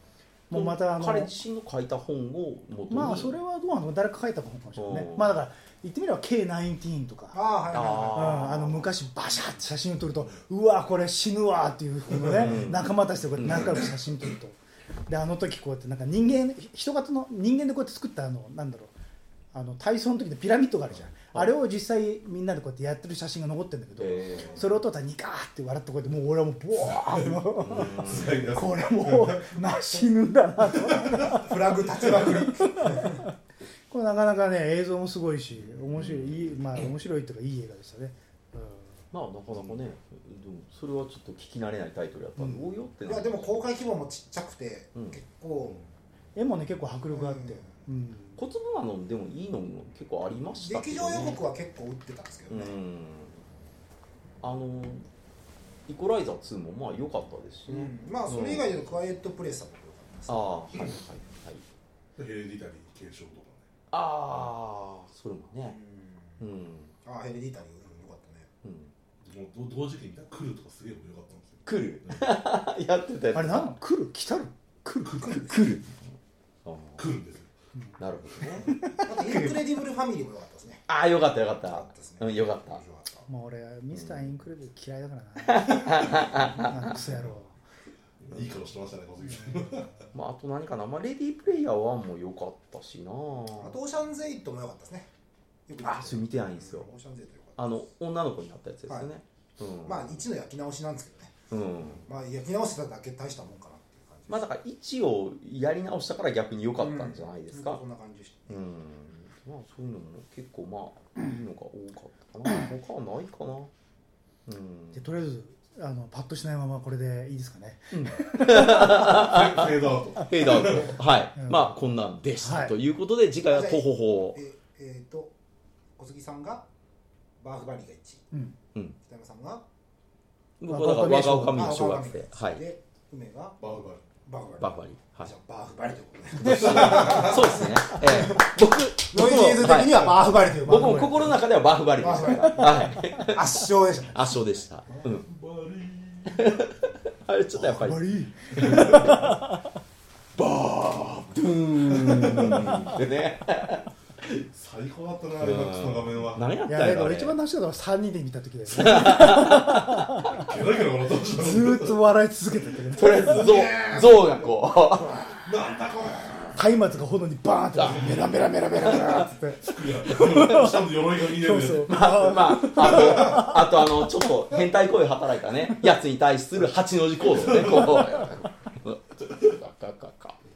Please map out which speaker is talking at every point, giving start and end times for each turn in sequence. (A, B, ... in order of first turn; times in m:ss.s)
0:00.5-0:01.3 A
0:00.5-0:03.3 B
0:02.9-0:07.4 A
0:04.8-0:05.3 B
0:07.3-0:08.5 C
0:07.7-0:08.8 B
0:08.1-0:18.9 A
0:12.3-0:13.8 B
0:19.5-0:31.5 A
0:24.0-0:24.6 B
0:26.9-0:29.4 D
0:27.6-0:28.5 B
0:31.2-0:33.2 C
0:32.2-0:33.3 A
0:33.9-0:39.0 A
0:36.0-0:36.5 B
0:39.1-0:43.7 B
0:42.4-0:42.7 A
0:43.0-0:45.8 C
0:46.3-0:48.4 A
0:47.1-0:47.7 C
0:48.4-0:51.4 B
0:50.5-0:52.7 C
0:52.5-0:53.4 B
0:54.4-0:55.0 B
0:55.9-0:58.8 B
0:57.7-1:00.5 C
1:00.3-1:01.6 B
1:02.2-1:03.7 D
1:03.9-1:05.8 B
1:05.7-1:06.4 C
1:06.4-1:06.9 B
1:07.0-1:08.5 C
1:08.6-1:08.9 B
1:09.2-1:12.3 D
1:11.6-1:13.7 B
1:13.3-1:15.8 A
1:15.0-1:15.4 D
1:15.3-1:15.9 B
1:16.6-1:17.0 B
1:17.0-1:17.5 D
1:18.0-1:18.7 B
1:18.6-1:19.6 A
1:19.0-1:20.8 C
1:20.9-1:22.8 B
1:21.7-1:23.3 C
1:23.3-1:27.5 A
1:23.9-1:24.2 B
1:25.4-1:27.0 B
1:28.2-1:30.1 D
1:30.1-1:33.8 B
1:33.6-1:35.1 C
1:35.7-1:37.6 C
1:35.8-1:36.9 B
1:37.6-1:40.2 B
1:39.8-1:41.4 C
1:41.5-1:42.1 B
1:42.0-1:44.4 C
1:44.3-1:47.8 B
1:46.8-1:48.6 C
1:48.5-1:53.7 B
1:54.4-1:55.0 B
1:54.9-1:59.1 A
1:57.9-2:04.4 B
1:59.0-2:01.0 D
2:01.4-2:01.7 A
2:02.4-2:02.7 A
2:03.5-2:05.3 C
2:06.0-2:06.6 C
2:07.4-2:08.2 C
2:09.0-2:09.6 C
2:10.6-2:12.6 B
2:10.7-2:11.6 A
2:11.5-2:13.6 C
2:13.6-2:14.0 D
2:14.2-2:18.5 C
2:14.6-2:15.3 B
2:16.4-2:23.6 B
2:16.4-2:18.0 A
2:16.6-2:17.4 D
2:19.1-2:21.4 C
2:20.7-2:21.1 A
2:22.0-2:24.6 C
2:22.5-2:23.1 A
2:24.1-2:25.2 B
2:24.9-2:26.6 D
2:26.3-2:28.0 B
2:27.5-2:29.7 A
2:28.6-2:29.2 D
2:28.6-2:29.3 B
2:30.4-2:34.2 B
2:31.9-2:32.9 D
2:34.4-2:36.5 D
2:35.4-2:37.4 B
2:36.7-2:40.5 A
2:38.7-2:40.2 B
2:40.3-2:42.0 D
2:41.3-2:43.4 A
2:42.9-2:45.2 B
2:43.1-2:44.6 D
2:45.3-2:46.6 D
2:46.5-2:53.6 A
2:47.8-2:52.2 D
2:51.9-3:00.4 B
2:52.8-2:53.5 D
2:57.3-2:58.2 D